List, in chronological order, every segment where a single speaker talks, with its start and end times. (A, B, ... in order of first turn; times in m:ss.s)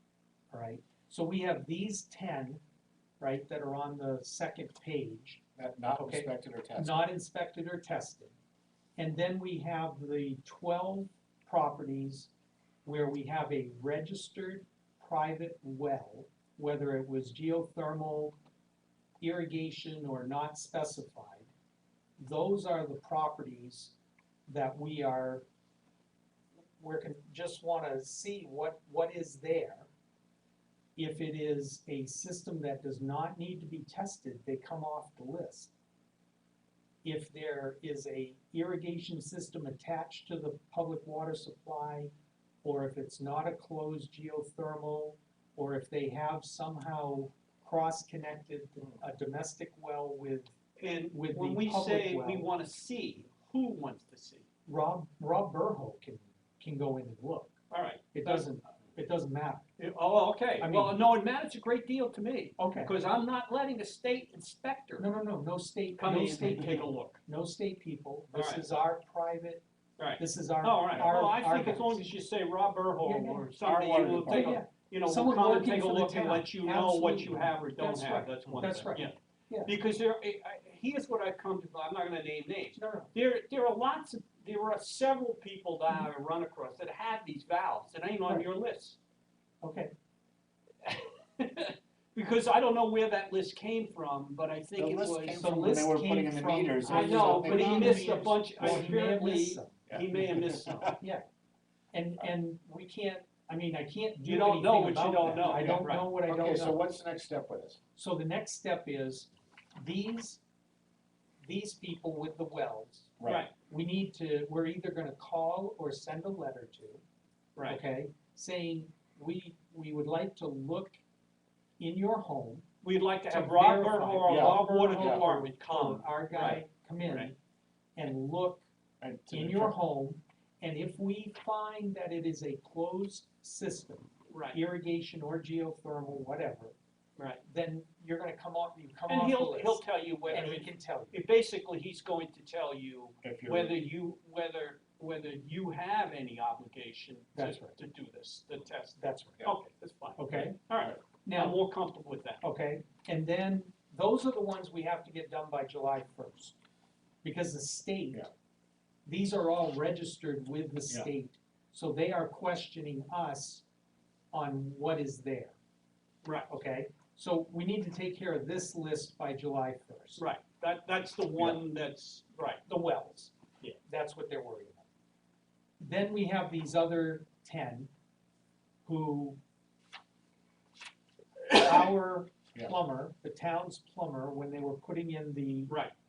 0:00.5-0:02.6 A
0:03.2-0:05.4 A
0:05.6-0:07.1 B
0:05.9-0:08.3 A
0:09.0-0:12.3 A
0:12.8-0:18.4 A
0:19.2-0:21.5 A
0:22.2-0:24.0 A
0:24.5-0:25.4 A
0:26.8-0:29.9 A
0:31.0-0:35.7 A
0:37.0-0:42.1 A
0:42.6-0:50.6 A
0:50.8-0:54.5 C
0:51.1-0:52.5 A
0:54.7-0:57.6 A
0:57.7-0:58.5 C
0:58.1-0:59.7 A
0:59.8-1:05.1 C
1:00.6-1:01.0 A
1:02.6-1:02.9 A
1:05.0-1:09.6 A
1:06.0-1:07.2 C
1:08.3-1:08.7 C
1:10.0-1:29.0 C
1:10.2-1:12.0 A
1:13.0-1:13.5 A
1:13.6-1:14.6 B
1:14.1-1:19.8 A
1:22.7-1:23.1 A
1:29.6-1:29.9 A
1:30.8-1:35.6 C
1:34.8-1:38.9 B
1:35.3-1:41.2 A
1:36.8-1:41.0 C
1:39.9-1:41.0 B
1:41.9-1:46.8 A
1:44.2-1:46.1 C
1:45.5-1:47.8 B
1:48.0-1:50.4 A
1:51.4-1:53.2 A
1:53.2-1:53.4 B
1:53.2-1:53.5 C
1:53.7-1:57.0 A
1:57.6-1:57.8 C
1:57.6-2:01.0 A
2:01.8-2:02.7 A
2:02.8-2:07.3 C
2:03.3-2:07.4 A
2:04.3-2:05.3 B
2:08.0-2:08.6 A
2:09.0-2:09.7 B
2:09.3-2:16.8 A
2:14.3-2:14.6 C
2:17.2-2:17.4 C
2:17.4-2:21.2 A
2:19.1-2:32.4 C
2:23.2-2:23.8 B
2:27.4-2:27.8 A
2:29.0-2:29.5 A
2:30.2-2:30.6 A
2:31.3-2:31.6 A
2:32.4-2:36.6 A
2:37.2-2:38.3 A
2:39.1-2:43.6 A
2:44.3-2:45.6 A
2:46.5-2:50.2 A
2:50.2-2:52.6 C
2:52.7-2:54.9 A
2:55.8-2:57.9 A
2:58.8-2:59.4 A
3:01.5-3:05.8 A